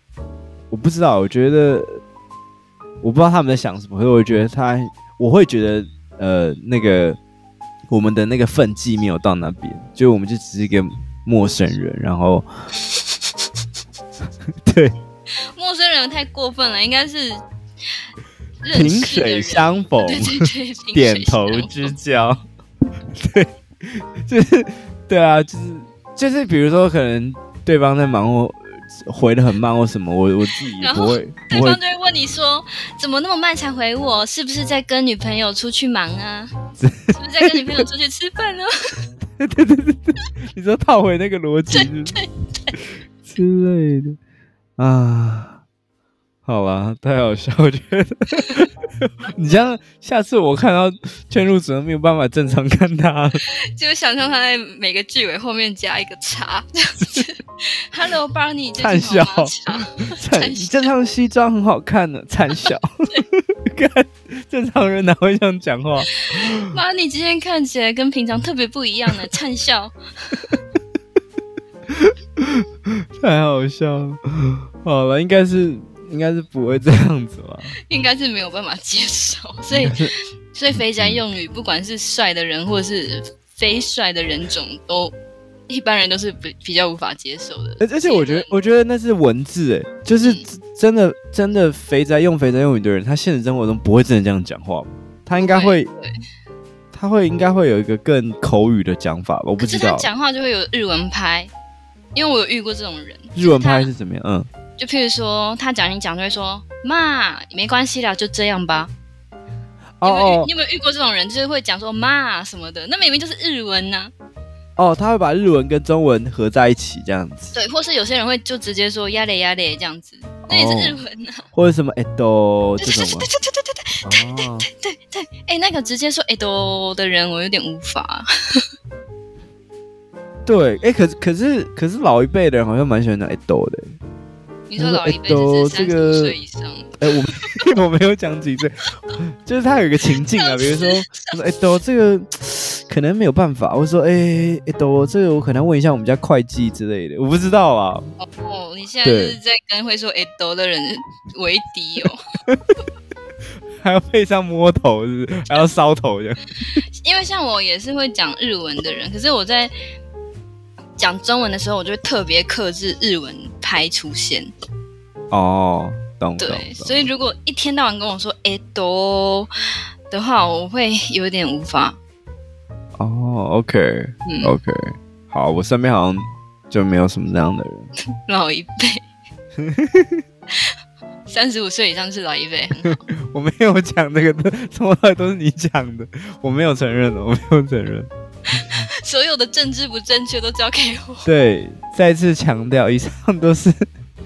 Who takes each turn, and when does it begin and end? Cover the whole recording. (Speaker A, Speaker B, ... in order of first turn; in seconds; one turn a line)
Speaker A: 0.7-2.0
Speaker A: 3.0-7.2
Speaker A: 7.9-12.5
Speaker A: 14.7-14.9
Speaker B: 15.5-17.4
Speaker B: 18.6-21.9
Speaker A: 18.7-22.4
Speaker A: 23.1-31.8
Speaker B: 30.8-36.5
Speaker A: 36.8-37.7
Speaker B: 37.1-39.1
Speaker A: 39.4-42.2
Speaker B: 41.7-42.7
Speaker A: 43.2-44.2
Speaker A: 44.8-45.6
Speaker A: 46.5-53.4
Speaker B: 53.4-60.9
Speaker A: 58.8-66.8
Speaker B: 62.7-63.2
Speaker B: 66.3-70.6
Speaker A: 71.9-72.6
Speaker A: 73.2-77.8
Speaker B: 77.9-85.1
Speaker A: 79.8-80.1
Speaker B: 85.7-88.6
Speaker A: 87.8-95.9
Speaker B: 90.2-90.5
Speaker B: 95.3-96.2
Speaker A: 96.9-100.1
Speaker B: 99.6-101.5
Speaker B: 102.1-103.9
Speaker A: 103.3-104.5
Speaker B: 104.8-108.9
Speaker A: 110.0-110.5
Speaker B: 110.0-114.1
Speaker A: 114.8-117.6
Speaker B: 117.5-121.5
Speaker A: 120.5-121.0
Speaker A: 121.5-123.3
Speaker B: 122.8-128.6
Speaker A: 124.0-124.7
Speaker A: 130.5-134.0
Speaker B: 134.7-137.1
Speaker A: 134.8-136.4
Speaker A: 137.0-148.1
Speaker B: 140.3-141.4
Speaker B: 148.2-152.2
Speaker A: 149.0-149.4
Speaker A: 153.8-156.4
Speaker B: 156.7-159.7
Speaker B: 161.0-164.5
Speaker A: 165.3-167.1
Speaker B: 166.4-169.5
Speaker B: 170.1-172.0
Speaker A: 173.0-177.9
Speaker B: 174.2-174.5
Speaker B: 178.3-179.0
Speaker A: 179.6-180.2
Speaker B: 181.3-183.0
Speaker A: 182.8-188.1
Speaker B: 188.5-191.3
Speaker A: 191.2-193.8